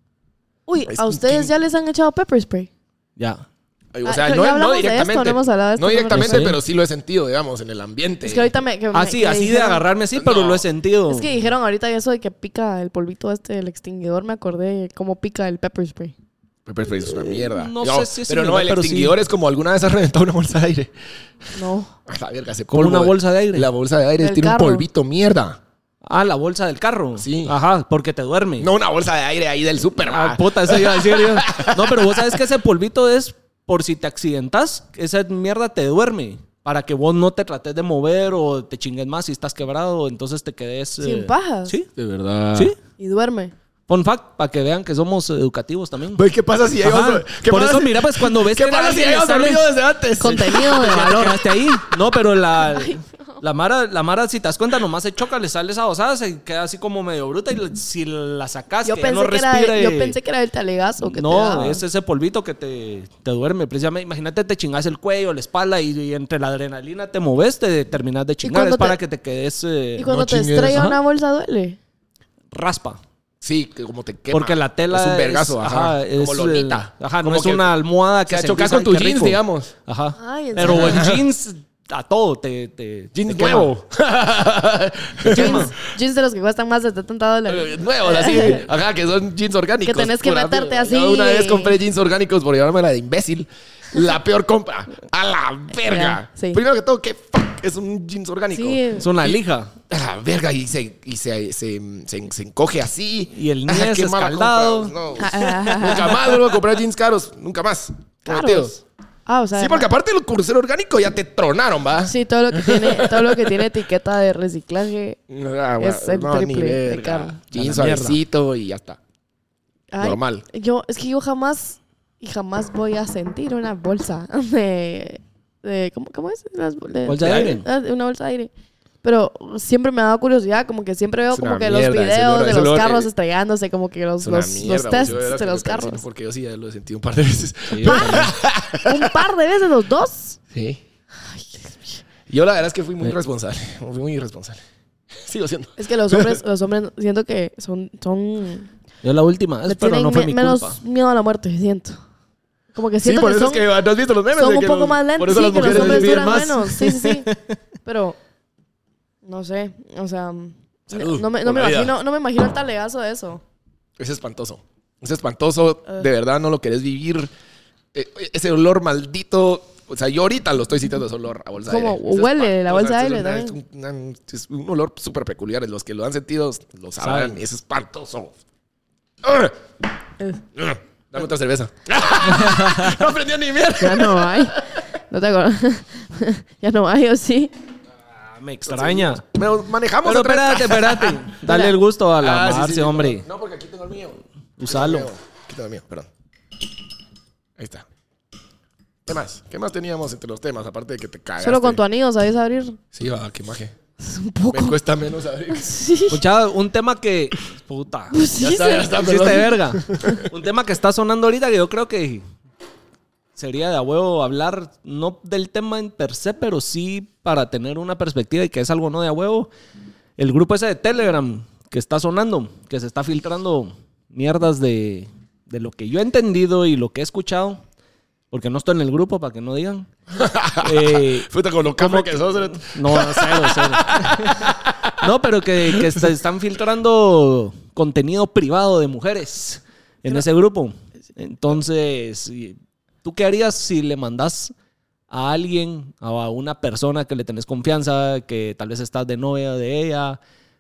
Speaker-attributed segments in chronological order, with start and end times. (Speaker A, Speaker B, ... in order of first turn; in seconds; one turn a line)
Speaker A: 0.7-2.7
Speaker B: 0.9-1.5
Speaker C: 3.2-3.4
Speaker B: 3.9-8.5
Speaker A: 4.0-6.5
Speaker C: 6.1-6.6
Speaker A: 8.2-9.8
Speaker C: 8.9-11.3
Speaker B: 10.2-10.7
Speaker A: 11.1-16.1
Speaker B: 16.7-20.9
Speaker C: 17.5-19.1
Speaker A: 21.6-21.9
Speaker B: 22.1-25.6
Speaker C: 22.7-23.7
Speaker A: 24.2-24.9
Speaker C: 26.0-28.7
Speaker B: 27.2-27.6
Speaker B: 28.6-32.4
Speaker C: 30.0-41.9
Speaker A: 41.0-41.8
Speaker B: 42.0-42.7
Speaker A: 43.0-43.5
Speaker C: 43.9-46.2
Speaker B: 46.1-51.2
Speaker C: 46.8-49.7
Speaker A: 50.2-51.5
Speaker C: 50.3-60.2
Speaker A: 52.7-53.4
Speaker A: 58.8-61.8
Speaker C: 61.0-70.2
Speaker A: 68.4-69.0
Speaker A: 70.0-71.8
Speaker B: 70.1-70.8
Speaker C: 70.7-71.0
Speaker C: 72.5-73.0
Speaker B: 73.4-77.7
Speaker C: 74.3-83.7
Speaker B: 78.3-79.7
Speaker A: 80.2-81.1
Speaker B: 80.6-81.2
Speaker B: 83.2-85.7
Speaker C: 85.3-85.7
Speaker A: 85.3-88.7
Speaker B: 87.5-108.7
Speaker A: 89.8-91.8
Speaker A: 95.8-96.6
Speaker A: 98.5-99.1
Speaker C: 99.0-99.7
Speaker C: 103.3-104.9
Speaker A: 105.2-106.3
Speaker A: 108.2-109.9
Speaker B: 109.6-113.5
Speaker A: 112.1-115.2
Speaker B: 115.3-119.0
Speaker A: 115.8-117.4
Speaker C: 117.5-118.2
Speaker A: 119.9-128.5
Speaker B: 120.0-120.4
Speaker C: 127.1-127.7
Speaker B: 127.2-127.5
Speaker A: 129.0-136.0
Speaker B: 131.3-133.1
Speaker B: 134.2-139.1
Speaker C: 137.7-138.3
Speaker A: 137.8-140.4
Speaker B: 140.5-140.8
Speaker A: 141.3-142.0
Speaker B: 142.3-144.6
Speaker B: 145.1-146.4
Speaker A: 145.8-148.7
Speaker C: 149.0-150.8
Speaker A: 149.7-152.0
Speaker A: 152.7-153.7
Speaker B: 153.0-156.6
Speaker A: 154.3-157.3
Speaker C: 155.6-157.4
Speaker A: 157.8-158.2
Speaker A: 159.2-163.4
Speaker B: 160.9-161.9
Speaker B: 164.0-167.3
Speaker B: 167.9-178.3
Speaker A: 171.7-173.6
Speaker C: 177.0-177.3
Speaker B: 179.2-179.6
Speaker B: 180.6-184.7
Speaker C: 182.3-183.0
Speaker A: 183.8-187.5
Speaker C: 188.2-189.2
Speaker B: 188.7-191.2
Speaker C: 190.0-193.2
Speaker A: 191.5-191.7
Speaker B: 192.2-196.1
Speaker C: 194.6-195.1
Speaker B: 197.6-197.9
Speaker B: 199.1-201.8
Speaker A: 201.4-202.8
Speaker B: 202.9-203.7
Speaker A: 204.0-204.8
Speaker B: 204.5-205.8
Speaker A: 205.5-206.2
Speaker C: 206.1-212.2
Speaker A: 208.1-209.0
Speaker B: 208.4-210.3
Speaker C: 213.4-219.5
Speaker C: 220.2-227.6
Speaker C: 228.3-229.9
Speaker B: 230.2-235.0
Speaker C: 230.6-244.5
Speaker B: 235.7-236.0
Speaker C: 245.1-250.2